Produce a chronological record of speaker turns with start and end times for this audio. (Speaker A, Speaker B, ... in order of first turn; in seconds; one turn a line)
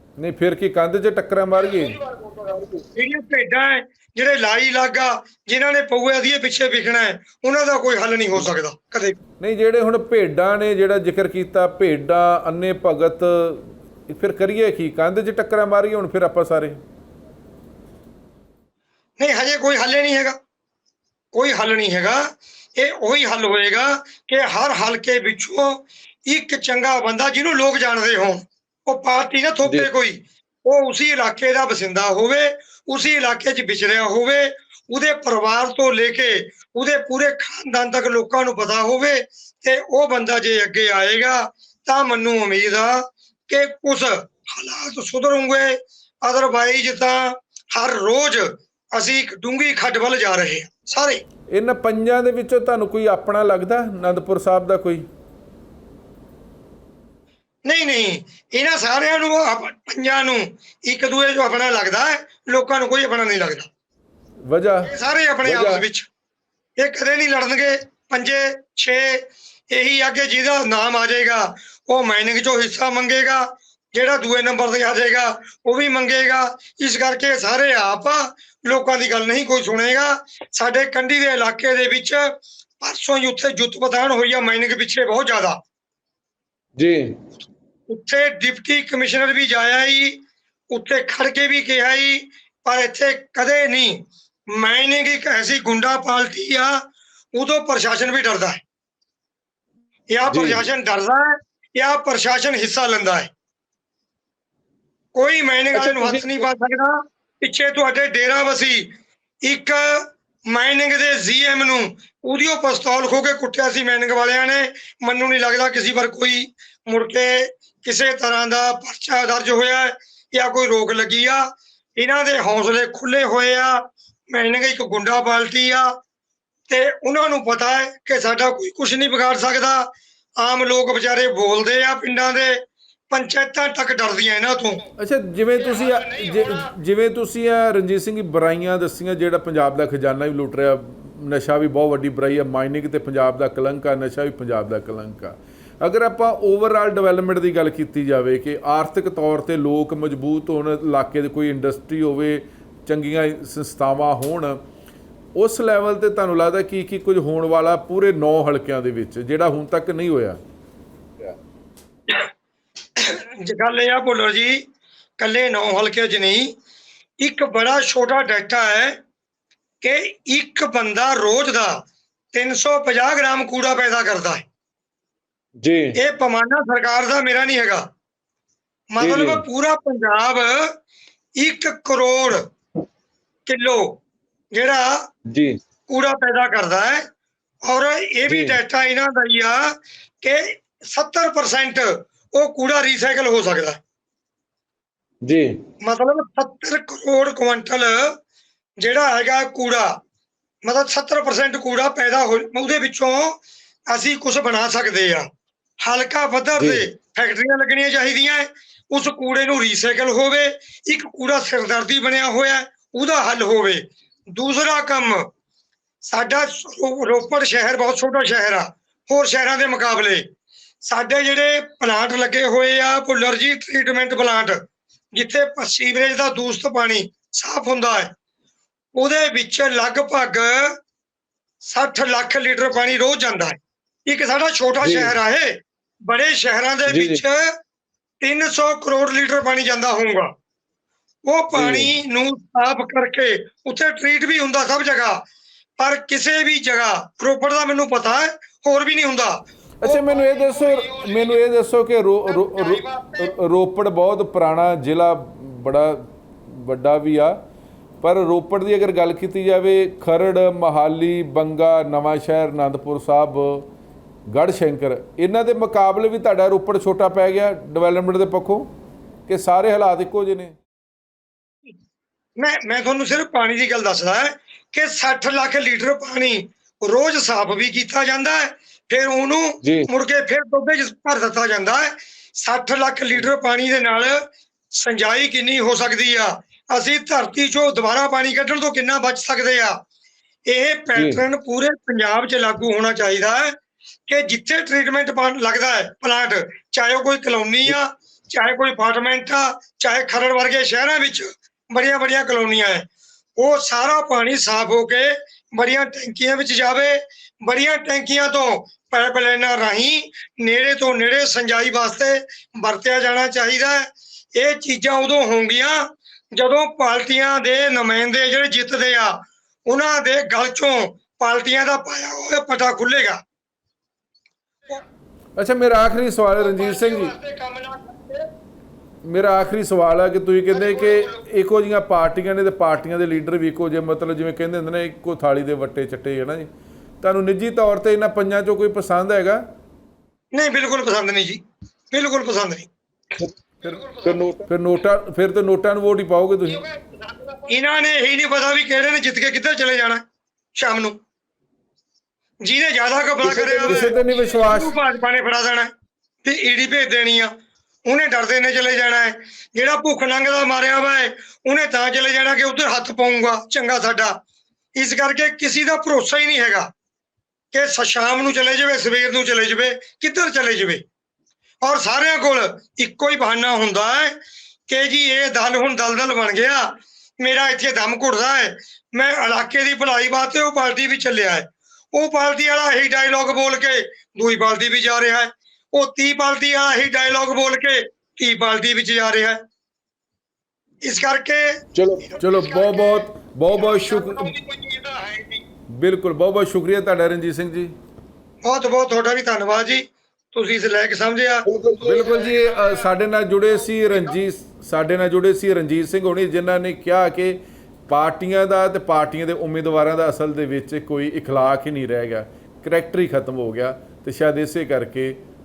Speaker A: 0.2-2.0
Speaker B: 2.9-9.2
Speaker A: 9.4-16.8
Speaker B: 19.2-20.4
Speaker B: 21.3-51.2
Speaker A: 51.5-55.0
Speaker B: 57.6-63.7
Speaker A: 64.5-64.9
Speaker B: 64.9-66.1
Speaker C: 65.4-65.8
Speaker B: 66.8-85.6
Speaker C: 86.8-87.2
Speaker B: 87.9-96.8
Speaker B: 97.3-98.6
Speaker B: 100.1-103.3
Speaker C: 100.3-100.7
Speaker B: 105.1-126.0
Speaker C: 105.7-106.5
Speaker B: 126.7-134.9
Speaker A: 135.0-154.6
Speaker A: 155.3-160.4
Speaker B: 163.0-164.7
Speaker B: 165.2-166.5
Speaker B: 167.2-169.0
Speaker B: 169.8-174.4
Speaker C: 175.6-175.9
Speaker B: 176.0-177.9
Speaker B: 178.9-180.8
Speaker C: 179.0-179.4
Speaker B: 181.4-182.5
Speaker B: 183.4-184.0
Speaker B: 184.5-185.1
Speaker C: 185.3-185.6
Speaker B: 185.9-187.1
Speaker B: 187.6-193.8
Speaker C: 188.2-188.6
Speaker C: 195.2-195.6
Speaker B: 195.8-198.2
Speaker B: 198.8-200.0
Speaker B: 200.6-205.3
Speaker B: 205.8-215.3
Speaker C: 206.6-206.8
Speaker B: 216.0-220.3
Speaker B: 220.8-228.1
Speaker B: 228.9-230.8
Speaker B: 231.6-237.6
Speaker C: 234.8-235.1
Speaker C: 236.9-237.2
Speaker B: 238.2-240.3
Speaker B: 241.2-245.2
Speaker C: 241.5-241.9
Speaker B: 245.8-250.9
Speaker A: 249.8-257.4
Speaker B: 252.7-253.2
Speaker A: 258.0-263.6
Speaker A: 264.3-268.7
Speaker A: 269.3-270.5
Speaker B: 272.4-289.8
Speaker C: 279.6-279.9
Speaker B: 290.5-293.6
Speaker C: 290.9-291.2
Speaker B: 294.1-323.2
Speaker A: 325.4-327.1
Speaker A: 329.0-336.5
Speaker A: 337.0-339.4
Speaker B: 340.3-342.7
Speaker C: 343.9-344.5
Speaker A: 344.5-346.7
Speaker B: 347.5-350.0
Speaker B: 350.5-351.0
Speaker B: 352.4-355.7
Speaker A: 353.2-354.7
Speaker C: 353.6-353.9
Speaker B: 356.2-357.3
Speaker B: 357.8-364.2
Speaker B: 364.7-366.7
Speaker B: 367.5-370.8
Speaker B: 371.6-389.4
Speaker B: 390.8-392.2
Speaker C: 391.7-392.1
Speaker A: 392.2-394.3
Speaker B: 394.5-394.8
Speaker A: 395.7-397.7
Speaker B: 398.4-401.5
Speaker C: 401.5-402.1
Speaker A: 401.8-415.2